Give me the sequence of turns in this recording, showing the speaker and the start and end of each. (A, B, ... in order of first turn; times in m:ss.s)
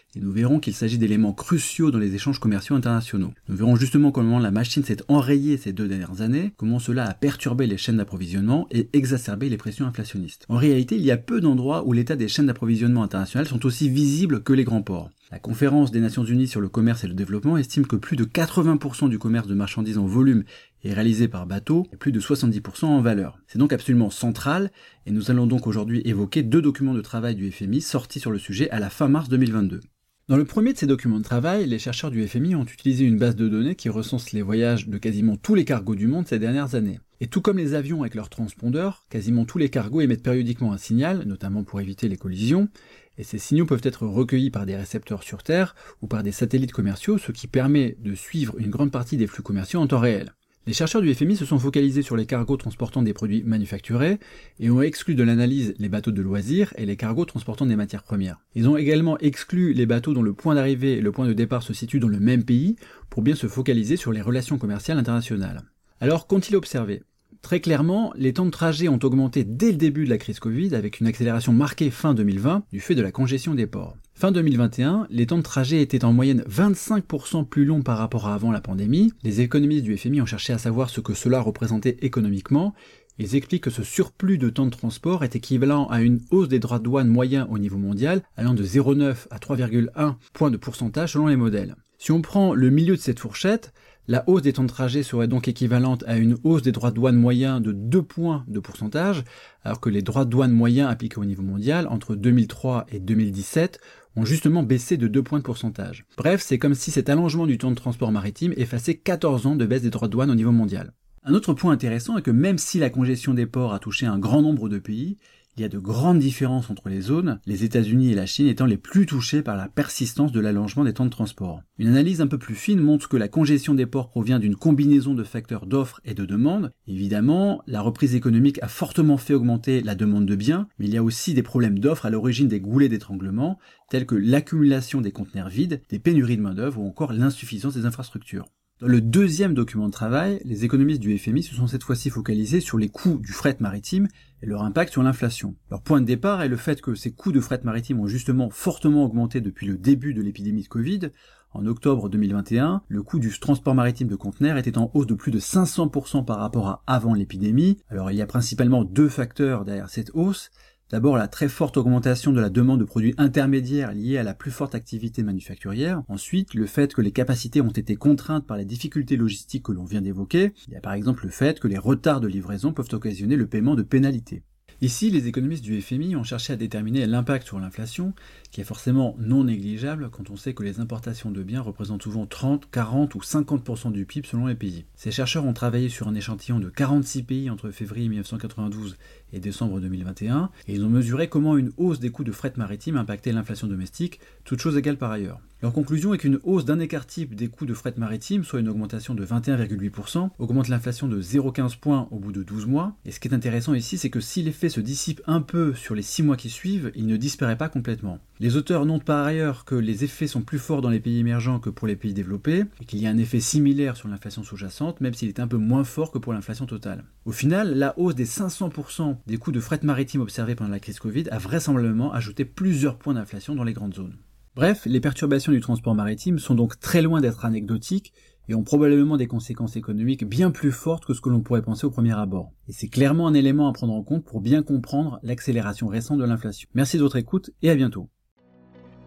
0:00.1-3:58.1 A